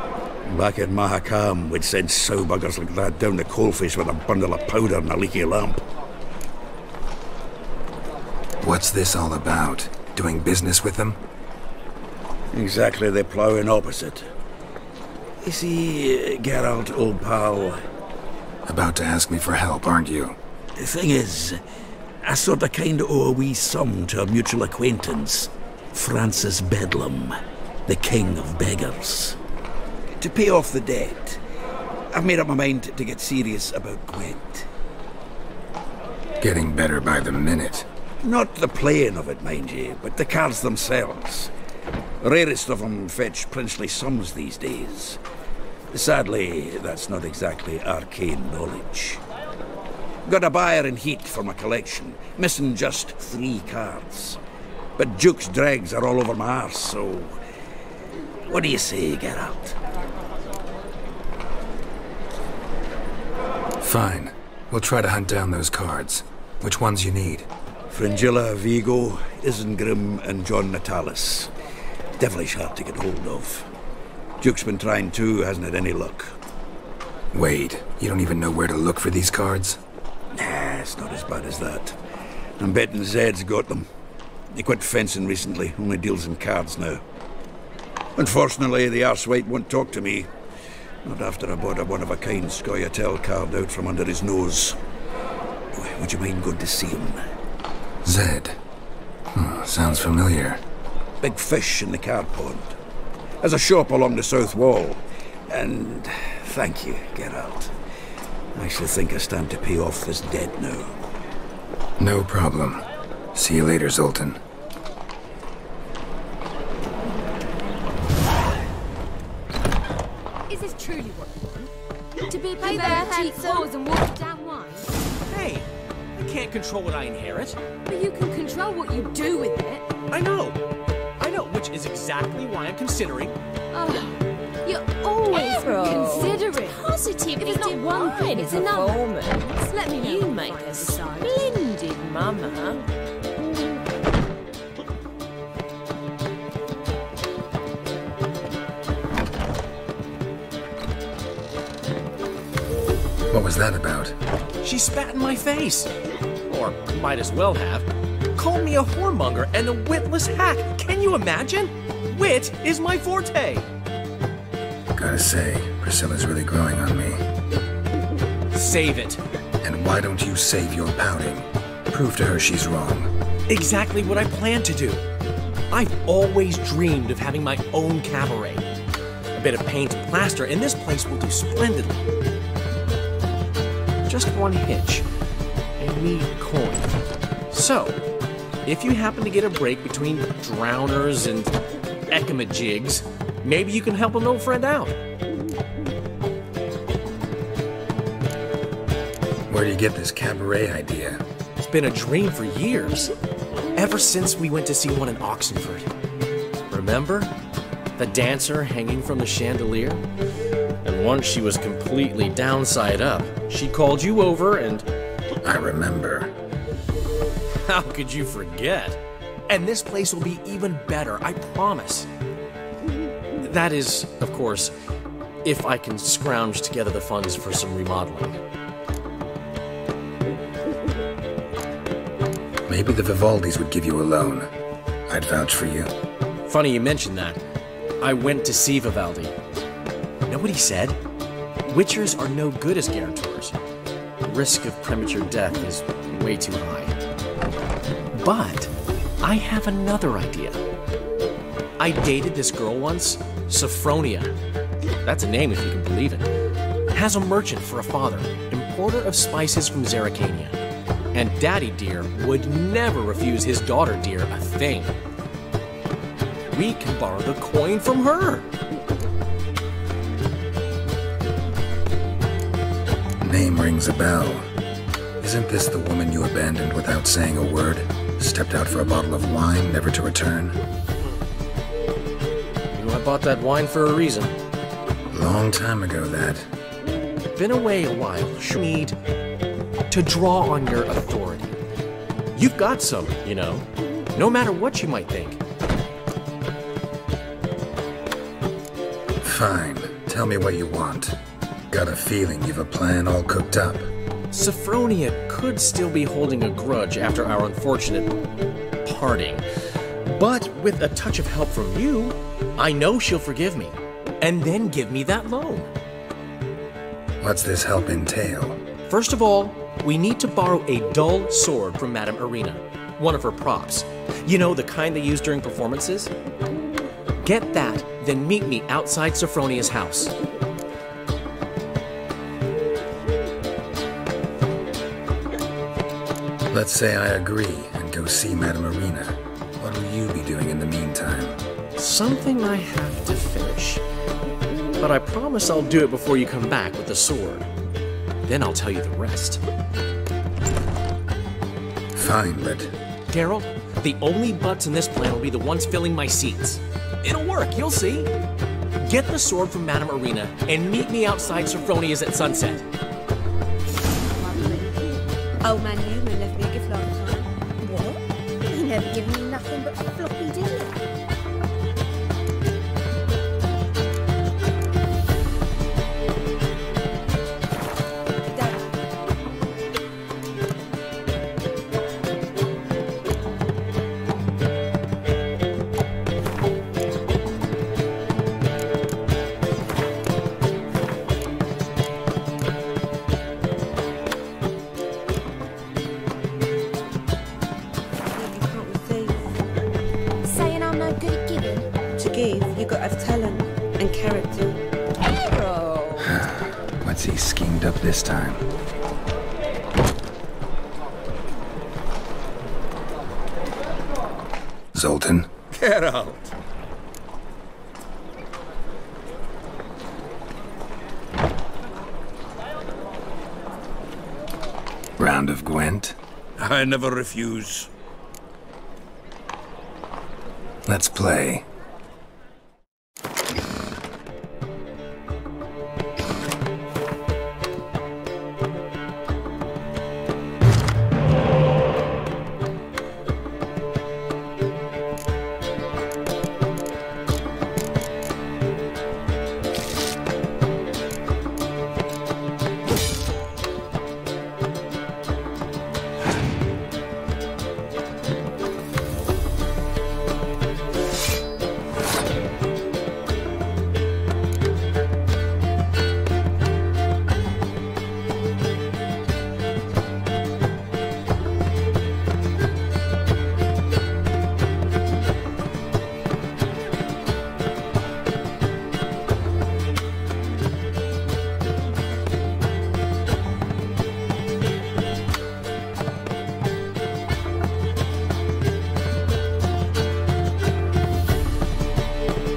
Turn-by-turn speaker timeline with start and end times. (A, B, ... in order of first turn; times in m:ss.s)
0:00.4-0:05.8 A
0:08.6-0:11.2 B
0:12.5-0:14.3 A
0:15.4-0:17.9 A
0:18.7-0:20.4 B
0:20.8-0:21.6 A
0:22.2-0:29.4 A
0:30.2-0:31.4 A
0:32.1-0:34.7 A
0:36.4-0:37.8 B
0:38.2-0:41.5 A
0:42.2-0:45.2 A
0:45.9-0:49.2 A
0:50.2-0:54.4 A
0:55.0-0:57.4 A
0:58.4-0:59.8 A
1:03.8-1:07.5 B
1:07.9-1:11.5 A
1:12.2-1:13.7 A
1:14.4-1:16.4 A
1:17.3-1:19.8 B
1:20.3-1:22.0 A
1:22.6-1:23.9 A
1:24.5-1:27.0 A
1:28.2-1:30.3 A
1:31.0-1:34.8 A
1:35.7-1:37.3 A
1:38.0-1:38.6 B
1:39.3-1:40.6 B
1:41.2-1:42.8 A
1:43.4-1:47.7 A
1:48.5-1:51.0 A
1:52.0-1:54.4 B
2:00.5-2:01.7 C
2:02.2-2:04.9 C
2:02.6-2:03.6 D
2:02.6-2:03.6 E
2:05.2-2:07.6 F
2:07.9-2:09.9 C
2:10.1-2:10.6 F
2:11.2-2:13.4 F
2:13.7-2:14.1 C
2:14.6-2:19.0 C
2:15.2-2:16.8 E
2:16.4-2:18.2 D
2:17.6-2:22.8 E
2:19.6-2:21.8 C
2:33.3-2:34.2 B
2:34.6-2:35.9 F
2:36.4-2:43.7 F
2:44.9-2:47.2 B
2:48.5-2:49.2 F
2:49.6-2:53.1 B
2:53.5-2:55.0 F
2:55.7-2:58.6 F
2:59.3-3:02.1 F
3:04.0-3:05.1 F
3:05.8-3:07.0 F
3:07.5-3:08.0 F
3:08.6-3:15.0 F
3:19.5-3:21.2 B
3:21.6-3:23.1 F
3:23.7-3:25.9 F
3:26.7-3:27.3 F
3:28.0-3:30.0 F
3:30.8-3:34.8 F
3:35.4-3:36.3 B
3:37.6-3:42.1 F
3:43.4-3:44.7 F
3:45.4-3:48.4 F
3:52.7-3:54.5 B
3:55.1-3:55.9 B
3:56.4-3:57.4 F
3:58.0-3:59.3 F
4:00.3-4:01.0 F
4:01.7-4:03.6 F
4:04.2-4:07.0 F
4:08.1-4:10.6 F
4:11.8-4:14.3 F
4:15.0-4:16.3 F
4:16.9-4:20.6 F
4:21.1-4:25.0 F
4:26.5-4:28.5 F
4:33.2-4:34.5 B
4:35.2-4:40.6 B
4:42.7-4:44.3 F
4:45.1-4:46.5 B
4:47.4-4:49.0 F
4:49.9-4:51.6 F
4:52.3-4:55.4 F
4:59.2-5:01.2 B
5:01.7-5:03.9 B
5:04.3-5:08.3 F
5:08.8-5:09.4 F
5:10.0-5:15.7 F
5:17.2-5:18.6 B
5:18.9-5:26.1 F
5:27.2-5:30.1 F
5:36.5-5:41.4 B
5:41.8-5:43.8 F
5:44.8-5:47.5 F
5:48.2-5:49.4 F
5:51.9-5:52.7 B
5:53.1-5:58.1 F
5:58.8-6:02.6 F
6:05.4-6:10.8 D
6:18.4-6:18.6 D
6:38.1-6:39.2 D
6:40.2-6:44.6 D
6:46.0-6:48.4 B
6:54.7-6:55.3 B
6:55.5-6:56.3 A
7:05.0-7:06.0 B
7:06.4-7:07.7 A
7:10.7-7:11.4 B